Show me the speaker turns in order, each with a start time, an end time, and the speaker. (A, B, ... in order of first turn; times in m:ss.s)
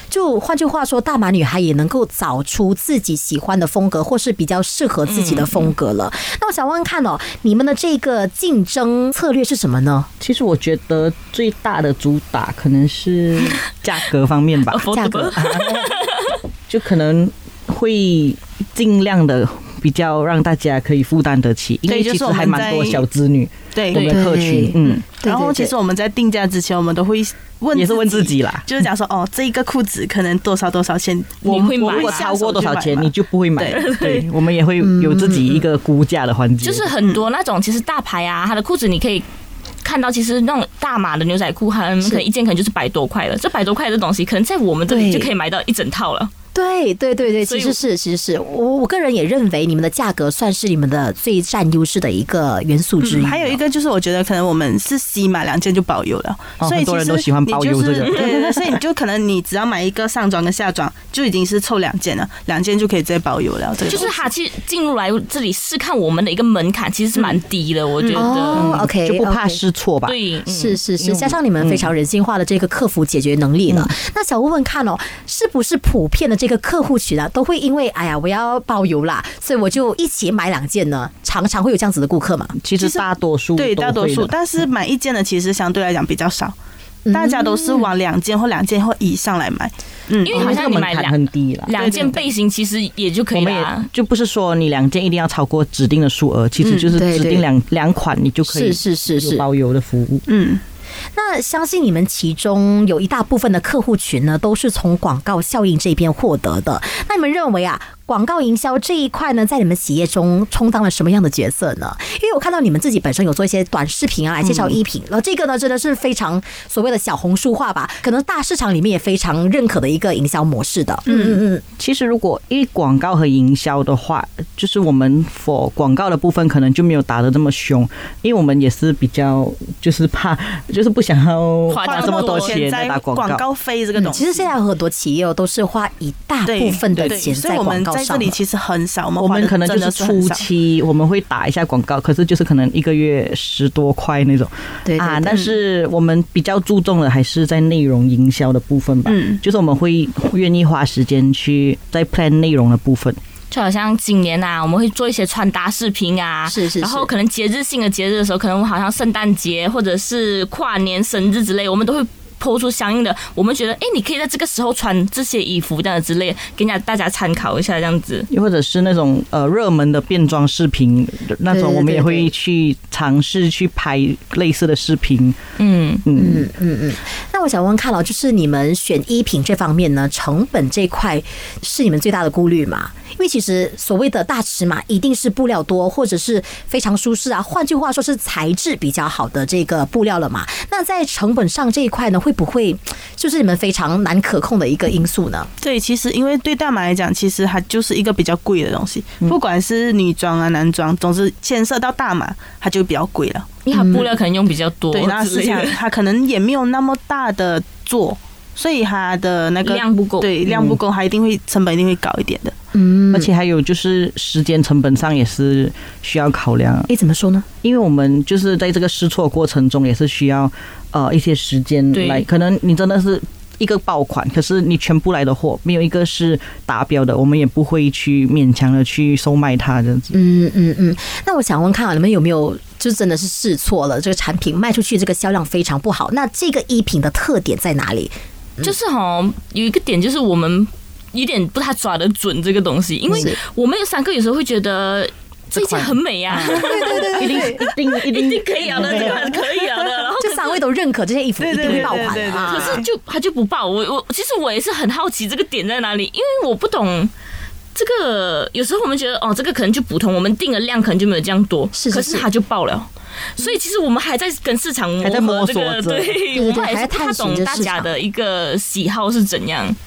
0:00.1-0:10.1 A
0:05.1-0:05.7 B
0:10.2-0:15.9 C
0:14.7-0:16.4 B
0:14.9-0:15.4 A
0:16.7-0:25.0 C
0:21.9-0:23.0 D
0:23.8-0:24.2 D
0:24.1-0:25.7 A
0:24.8-0:33.8 D
0:27.7-0:28.7 C
0:31.4-0:32.3 B
0:31.9-0:36.9 C
0:33.7-0:34.3 B
0:34.8-0:35.6 A
0:36.6-0:39.2 B
0:39.8-0:46.3 B
0:44.9-0:45.3 A
0:46.5-0:53.6 A
0:47.4-0:47.8 B
0:53.0-1:04.3 D
0:56.6-0:58.8 C
1:03.8-1:08.7 B
1:08.0-1:08.3 D
1:08.2-1:09.6 A
1:08.5-1:10.2 C
1:10.1-1:10.8 B
1:10.5-1:22.6 A
1:11.0-1:11.9 C
1:22.6-1:24.3 C
1:22.8-1:26.6 D
1:27.1-1:27.9 A
1:27.1-1:30.6 D
1:30.2-1:33.9 B
1:30.3-1:31.7 C
1:31.7-1:32.3 D
1:33.3-1:40.3 C
1:36.6-1:36.9 D
1:36.9-1:37.4 A
1:38.4-1:39.4 A
1:40.3-1:40.6 D
1:41.2-2:01.6 A
1:54.4-1:54.8 C
2:01.1-2:01.4 D
2:01.8-2:13.4 C
2:11.7-2:12.6 B
2:11.8-2:14.5 D
2:14.0-2:18.4 A
2:16.5-2:20.4 D
2:19.2-2:33.2 C
2:24.8-2:25.4 A
2:29.1-2:29.4 D
2:33.5-2:48.3 B
2:36.5-2:37.1 A
2:48.3-2:55.4 C
2:51.5-2:52.3 A
2:55.6-2:56.0 B
2:56.0-2:56.5 C
2:56.2-3:15.5 A
3:15.6-3:23.5 D
3:23.6-3:25.8 B
3:23.7-3:24.1 A
3:24.9-3:32.5 D
3:29.6-3:30.3 B
3:30.4-3:30.8 C
3:32.7-3:33.3 A
3:33.1-3:36.9 C
3:36.9-3:37.5 A
3:37.6-3:50.1 C
3:41.9-3:42.2 B
3:50.1-3:58.7 A
3:58.6-4:10.6 B
4:03.1-4:03.4 A
4:05.5-4:09.4 C
4:06.5-4:07.6 A
4:10.2-4:12.8 A
4:11.4-4:12.9 D
4:11.6-4:11.9 C
4:12.5-4:17.1 B
4:17.8-4:29.8 B
4:21.8-4:22.3 A
4:25.0-4:26.2 C
4:26.3-4:27.9 A